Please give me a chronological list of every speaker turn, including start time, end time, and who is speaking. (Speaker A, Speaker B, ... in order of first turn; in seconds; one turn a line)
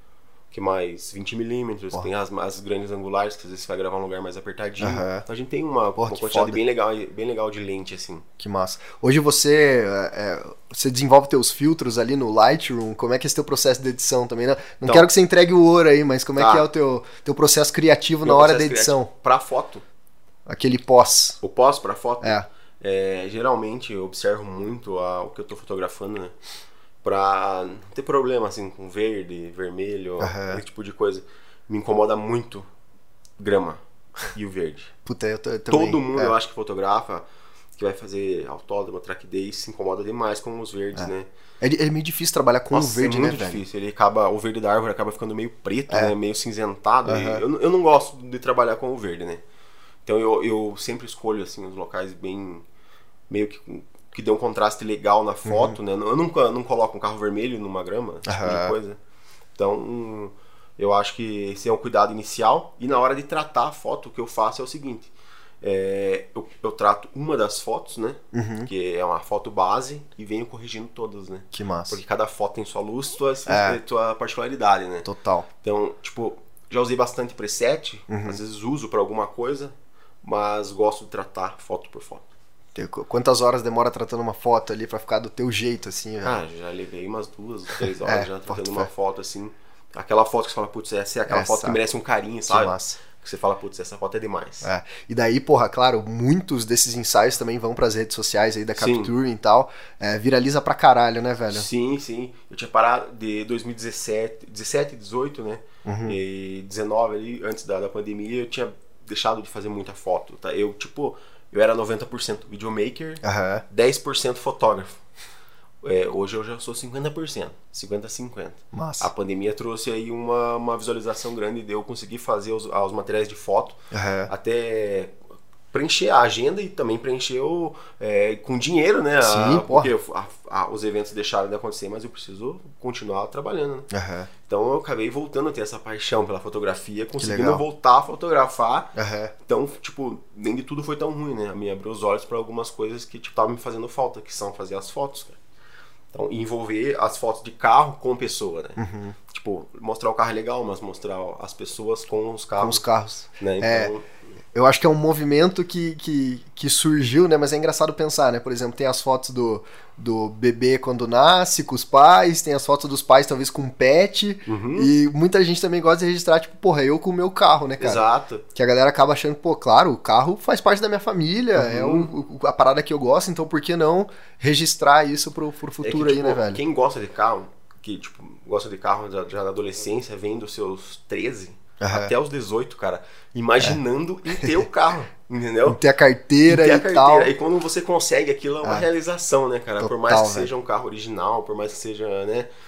Speaker A: 0.5-8.2
Speaker B: 4.8-5.2
Speaker B: 6.0-6.6
Speaker B: 8.4-19.1
Speaker A: 16.4-16.7
Speaker A: 18.2-19.8
Speaker B: 20.5-21.4
Speaker A: 21.4-26.3
Speaker A: 27.0-32.6
Speaker B: 30.2-30.6
Speaker A: 33.4-33.8
Speaker A: 34.3-34.9
Speaker B: 35.0-36.3
Speaker A: 35.7-37.2
Speaker A: 37.8-41.3
Speaker B: 41.6-43.6
Speaker A: 42.7-49.4
Speaker B: 45.9-46.1
Speaker B: 47.0-47.4
Speaker A: 50.0-52.6
Speaker A: 53.3-59.0
Speaker B: 55.4-55.8
Speaker B: 58.3-58.7
Speaker A: 59.6-75.1
Speaker B: 68.3-68.7
Speaker B: 71.5-72.0
Speaker B: 73.5-73.8
Speaker B: 75.0-75.5
Speaker A: 75.6-82.2
Speaker B: 78.1-78.4
Speaker B: 82.7-86.4
Speaker A: 86.2-94.7
Speaker B: 88.0-88.9
Speaker B: 91.3-91.8
Speaker B: 92.5-93.0
Speaker B: 94.6-101.7
Speaker A: 98.8-99.1
Speaker A: 101.5-115.0
Speaker B: 105.8-106.2
Speaker B: 113.2-113.6
Speaker A: 115.8-125.2
Speaker B: 118.7-119.1
Speaker B: 123.9-124.3
Speaker A: 125.7-133.9
Speaker B: 129.2-129.9
Speaker B: 133.9-134.3
Speaker A: 134.5-138.9
Speaker B: 137.2-137.6
Speaker B: 138.9-139.3
Speaker A: 139.4-145.4
Speaker A: 146.1-152.8
Speaker B: 148.8-149.2
Speaker B: 152.6-153.9
Speaker A: 153.4-154.1
Speaker B: 154.5-176.6
Speaker A: 164.4-164.9
Speaker A: 167.8-168.4
Speaker A: 171.5-172.1
Speaker A: 175.8-185.8
Speaker B: 181.8-182.1
Speaker B: 185.7-187.3
Speaker A: 186.5-192.5
Speaker B: 189.8-190.5